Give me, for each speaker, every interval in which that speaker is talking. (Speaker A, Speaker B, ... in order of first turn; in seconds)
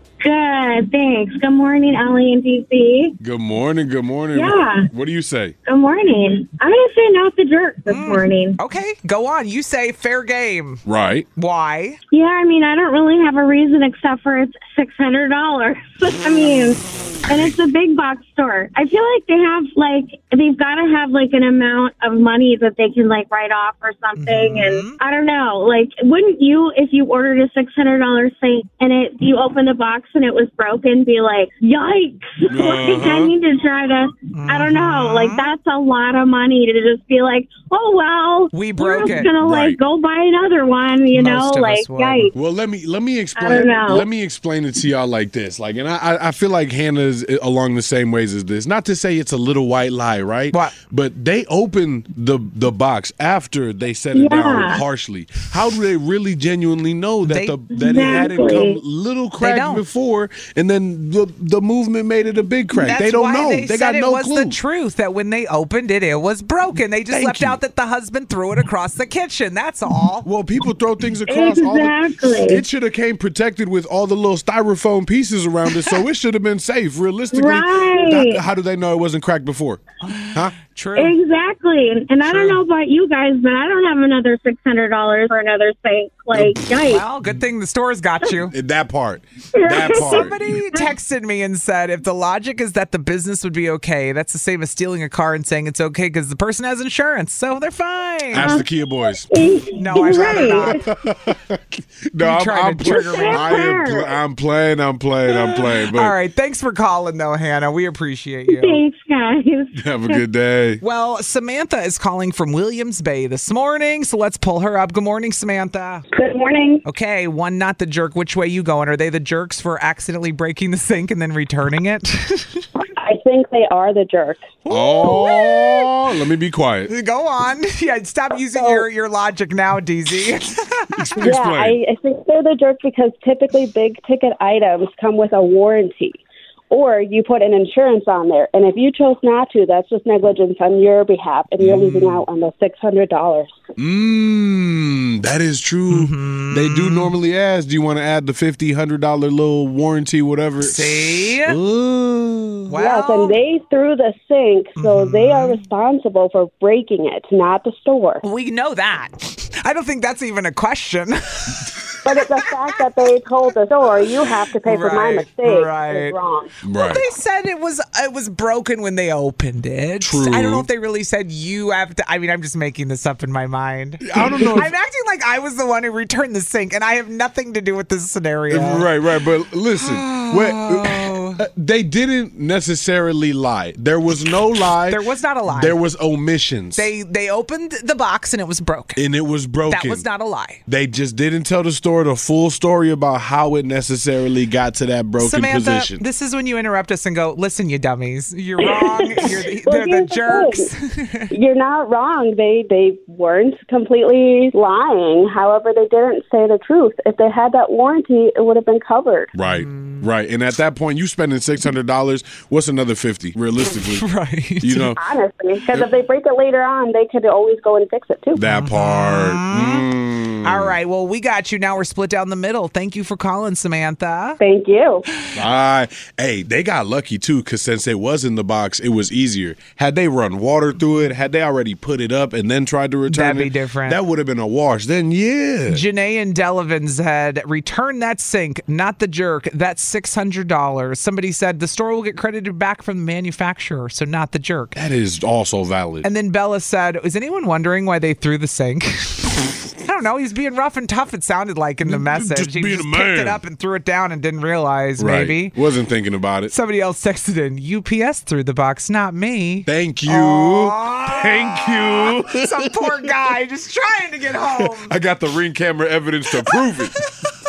Speaker A: 0.2-3.1, 4.3-4.9, 5.7-8.6, 12.1-42.3, 43.4-44.1, 54.1-54.8, 57.7-58.8, 71.3-72.6, 77.3-78.4, 81.0-87.0, 89.5-90.2, 98.4-98.7, 99.2-100.8, 102.9-104.2, 108.5-110.2
Speaker B: 3.2-5.5, 10.9-11.3, 32.5-33.3, 39.3-39.8, 42.3-64.6, 67.1-67.6, 70.2-79.8, 86.3-86.6, 88.5-90.5, 98.3-99.3, 100.1-106.2, 109.7-110.8, 124.7-126.9, 131.0-131.8, 141.6-142.2, 143.8-152.7, 166.6-167.1, 170.0-170.7, 174.0-174.7, 178.5-186.9, 189.0-190.1, 190.7-196.0, 209.3-214.1, 214.6-215.0, 218.3-220.7, 225.4-235.8, 244.8-246.1, 251.8-253.4, 255.0-256.5, 259.7-262.8, 264.6-267.0
Speaker C: 7.9-10.8, 11.4-12.0, 24.2-25.0, 34.3-35.5, 38.5-39.4, 41.1-42.3, 57.2-57.6, 59.4-59.8, 62.8-70.3, 80.0-81.2, 82.2-82.6, 86.7-88.5, 89.9-98.6, 99.8-100.8, 102.2-103.7, 105.3-108.8, 110.8-116.0, 116.8-122.6, 124.7-125.9, 126.9-131.3, 145.9-147.1, 150.6-151.6, 152.7-153.4, 154.8-155.6, 158.2-162.7, 164.6-166.2, 166.7-178.9, 179.8-181.4, 184.8-185.8, 186.8-189.0, 189.7-190.6, 195.2-201.3, 209.4-210.0, 213.7-214.9, 218.4-219.9, 220.4-224.4, 233.1-234.0, 235.7-244.8, 246.0-255.6, 256.5-264.9, 266.4-266.8
Speaker D: 116.1-116.8, 122.9-124.6, 128.5-128.9, 131.2-143.6, 152.8-158.2, 162.1-166.5, 198.6-200.7, 201.3-209.3, 215.0-218.4, 224.4-225.1